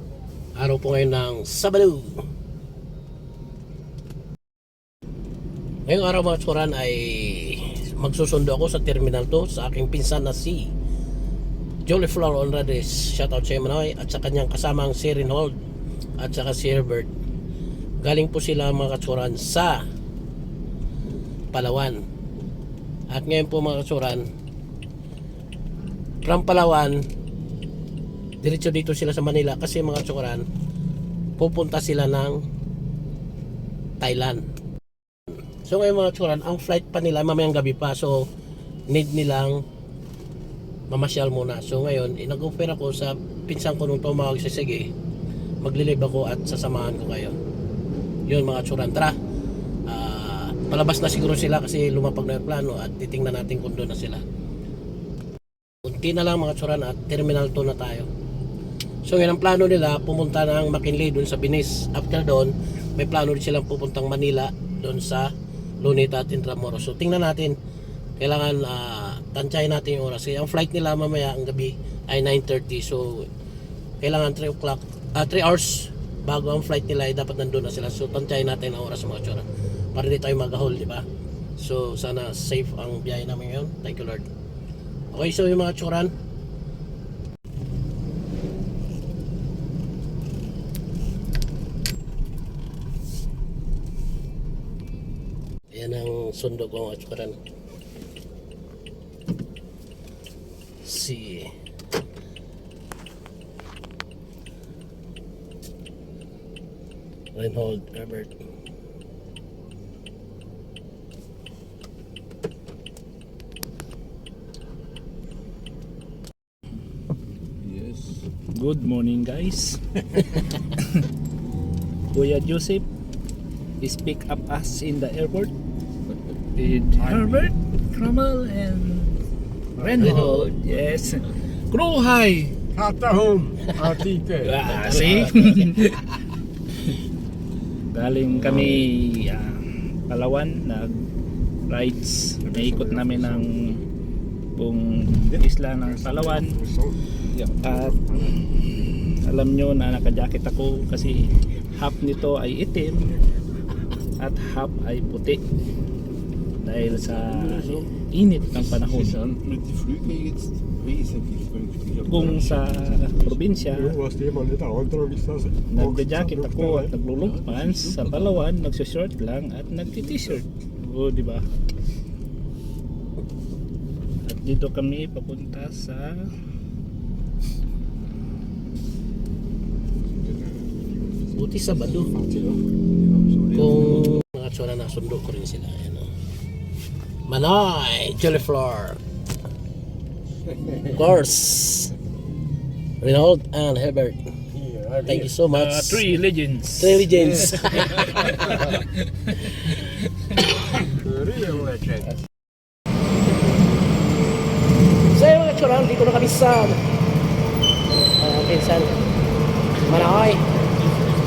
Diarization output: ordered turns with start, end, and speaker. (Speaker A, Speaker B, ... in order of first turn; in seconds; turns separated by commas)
Speaker A: 0.6-2.2, Speaker A: 5.9-10.7, Speaker A: 11.9-15.5, Speaker A: 16.2-17.1, Speaker A: 18.0-19.8, Speaker A: 21.5-22.0, Speaker A: 23.1-24.2, Speaker A: 26.2-27.0, Speaker A: 28.4-30.4, Speaker A: 31.4-32.4, Speaker A: 34.0-34.4, Speaker A: 35.6-38.3, Speaker A: 38.9-39.6, Speaker A: 40.9-44.9, Speaker A: 45.6-47.3, Speaker A: 48.3-49.1, Speaker A: 49.9-54.2, Speaker A: 55.8-58.1, Speaker A: 59.0-67.6, Speaker A: 68.2-73.3, Speaker A: 74.0-81.0, Speaker A: 81.6-84.3, Speaker A: 85.1-86.1, Speaker A: 95.7-97.4, Speaker A: 100.8-101.5, Speaker A: 107.3-108.3, Speaker B: 117.6-118.2, Speaker C: 118.5-120.9, Speaker C: 122.1-122.8, Speaker C: 123.8-125.5, Speaker C: 126.6-129.2, Speaker B: 127.0-127.3, Speaker C: 129.8-132.6, Speaker B: 129.8-130.3, Speaker B: 132.7-134.9, Speaker C: 134.4-136.0, Speaker C: 137.9-141.0, Speaker C: 141.7-143.8, Speaker B: 142.5-143.4, Speaker C: 144.6-146.5, Speaker B: 146.0-148.4, Speaker C: 147.6-153.2, Speaker C: 154.2-155.4, Speaker C: 156.6-159.2, Speaker B: 157.3-157.7, Speaker B: 158.6-168.4, Speaker C: 162.1-164.0, Speaker C: 165.7-171.4, Speaker C: 174.2-176.3, Speaker B: 180.2-181.2, Speaker A: 181.3-182.1, Speaker B: 182.0-182.6, Speaker B: 183.1-183.7, Speaker A: 183.5-186.1, Speaker A: 187.3-189.0, Speaker A: 190.8-191.9, Speaker A: 193.0-194.2, Speaker B: 194.6-195.2, Speaker A: 195.0-196.0, Speaker C: 195.5-199.5, Speaker A: 196.8-198.2, Speaker B: 198.2-198.4, Speaker B: 201.0-202.0, Speaker A: 205.1-206.8, Speaker A: 208.2-208.9, Speaker A: 209.8-210.4